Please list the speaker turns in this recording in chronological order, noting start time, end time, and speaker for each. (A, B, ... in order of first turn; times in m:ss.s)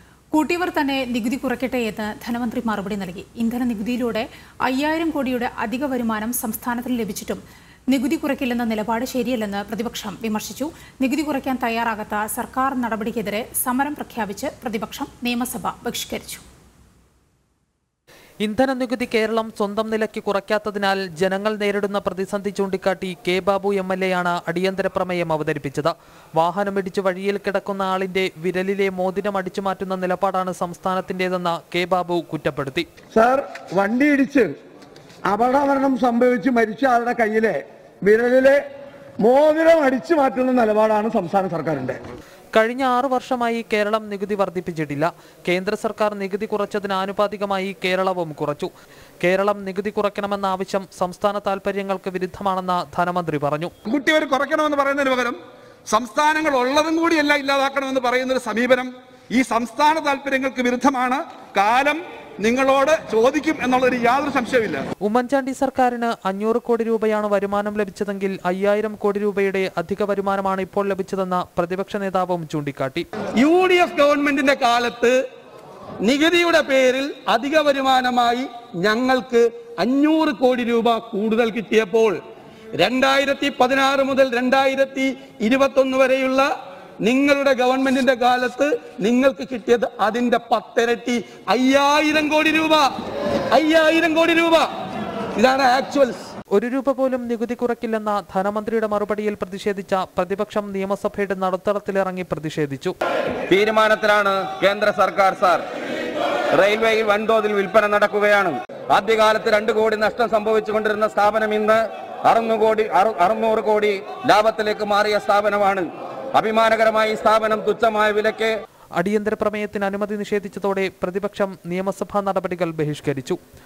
0:00.3-0:16.4 A
0:18.4-0:32.9 B
0:33.1-0:34.5 C
0:35.3-0:38.6 C
0:39.2-0:42.0 C
0:42.5-0:48.7 B
0:49.2-0:53.7 B
0:53.8-0:55.4 D
0:55.9-1:04.8 D
1:05.0-1:13.0 B
1:13.4-1:15.1 E
1:16.0-1:22.2 E
1:22.8-1:26.4 E
1:27.0-1:32.8 E
1:33.5-1:34.7 E
1:35.4-1:36.3 E
1:36.5-1:42.9 B
1:43.5-1:45.6 F
1:46.5-1:58.5 F
1:59.0-2:03.4 B